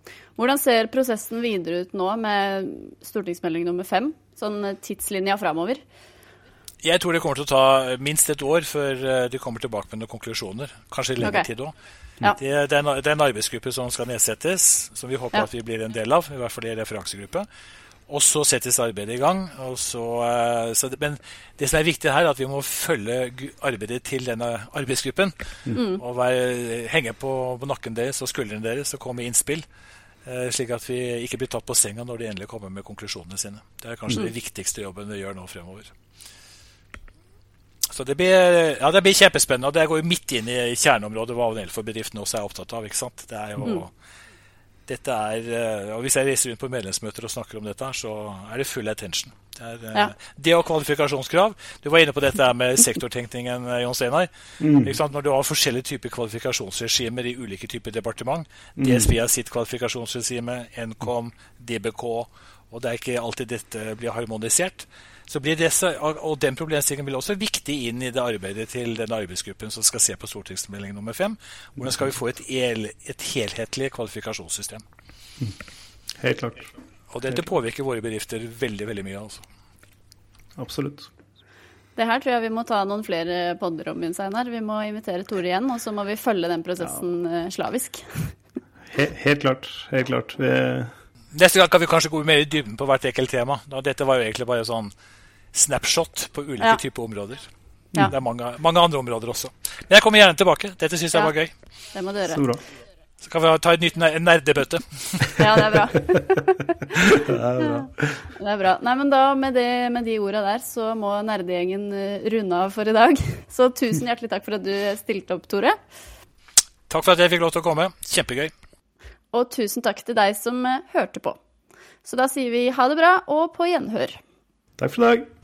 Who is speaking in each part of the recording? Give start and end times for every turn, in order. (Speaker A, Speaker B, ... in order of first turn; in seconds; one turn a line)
Speaker A: 0.3-5.8
Speaker B: 6.8-11.7
Speaker A: 11.2-11.5
Speaker B: 12.3-17.5
Speaker B: 18.1-29.6
Speaker A: 25.7-26.0
Speaker B: 30.2-35.9
Speaker B: 37.9-43.9
Speaker B: 44.9-74.8
Speaker C: 54.6-54.9
Speaker C: 58.8-59.1
Speaker C: 71.8-72.0
Speaker C: 76.2-76.6
Speaker B: 77.1-79.4
Speaker C: 80.6-81.1
Speaker A: 82.0-88.3
Speaker C: 88.9-90.9
Speaker B: 91.3-94.9
Speaker B: 95.5-97.5
Speaker B: 98.1-101.5
Speaker A: 101.9-102.4
Speaker C: 102.3-102.6
Speaker B: 103.2-105.4
Speaker A: 105.4-107.8
Speaker C: 107.2-108.2
Speaker A: 108.4-115.8
Speaker B: 116.9-118.5
Speaker A: 119.3-121.4
Speaker A: 122.0-124.2
Speaker C: 124.8-125.3